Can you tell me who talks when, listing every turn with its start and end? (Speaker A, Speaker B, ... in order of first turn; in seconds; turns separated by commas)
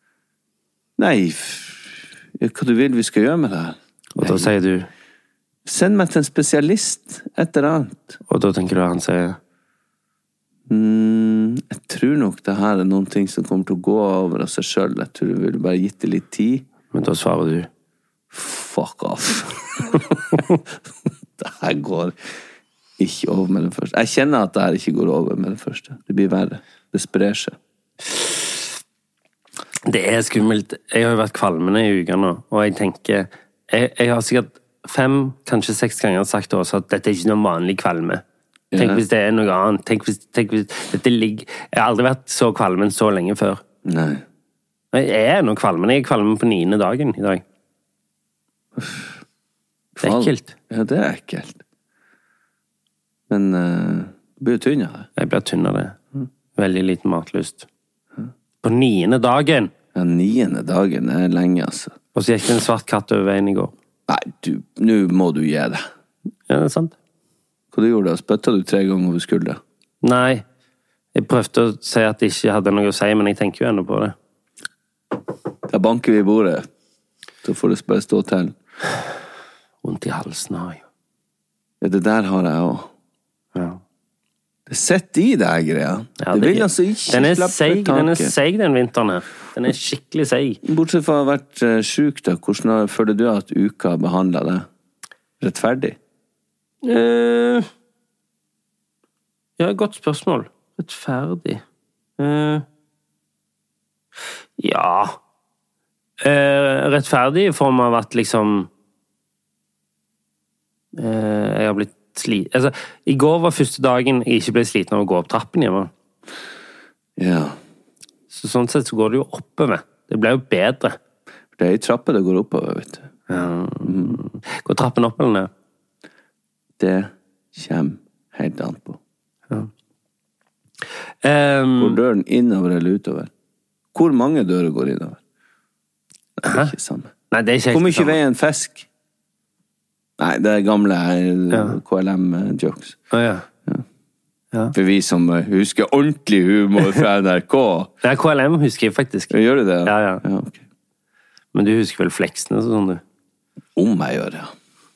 Speaker A: 1.0-4.5, Speaker B: 4.2-4.9, Speaker A: 5.7-8.2, Speaker B: 8.3-9.4, Speaker A: 10.7-16.6, Speaker B: 16.9-17.7, Speaker A: 18.3-20.6, Speaker A: 21.4-22.1, Speaker A: 23.0-27.6, Speaker B: 28.1-28.6, Speaker B: 29.9-38.2, Speaker A: 38.7-39.0, Speaker B: 38.8-43.6, Speaker A: 43.9-44.2, Speaker B: 44.9-47.4, Speaker A: 48.8-49.1, Speaker A: 50.0-51.6, Speaker B: 50.0-50.5, Speaker A: 53.3-55.1, Speaker B: 55.2-56.0, Speaker B: 56.6-57.6, Speaker B: 58.6-59.7, Speaker A: 60.0-62.0, Speaker B: 62.1-63.7, Speaker A: 64.1-65.8, Speaker B: 66.5-66.9, Speaker A: 67.7-69.6, Speaker B: 70.0-70.5, Speaker B: 71.1-74.1, Speaker A: 75.7-76.7, Speaker A: 77.4-78.5, Speaker B: 79.8-80.8, Speaker A: 81.8-82.9, Speaker B: 83.5-83.8, Speaker A: 84.7-88.3, Speaker B: 86.2-90.6, Speaker A: 90.6-94.7, Speaker A: 95.4-96.0, Speaker B: 96.8-97.7, Speaker B: 99.6-101.6, Speaker B: 102.2-102.6, Speaker B: 104.6-105.2, Speaker B: 106.2-108.7, Speaker B: 111.0-115.9, Speaker A: 117.2-117.6, Speaker B: 118.3-121.0, Speaker A: 121.6-123.1, Speaker B: 123.3-125.5, Speaker A: 123.8-124.2, Speaker A: 126.8-129.0, Speaker B: 131.2-132.0, Speaker A: 131.8-133.3, Speaker A: 133.9-135.2, Speaker A: 136.4-137.1, Speaker B: 136.5-136.7, Speaker B: 137.3-138.2, Speaker A: 137.7-138.9, Speaker A: 140.2-143.0, Speaker B: 141.5-141.8, Speaker B: 143.1-143.5, Speaker A: 144.7-147.9, Speaker B: 148.0-149.3, Speaker A: 149.3-150.6, Speaker B: 149.8-150.2, Speaker B: 151.5-153.0, Speaker A: 153.8-154.5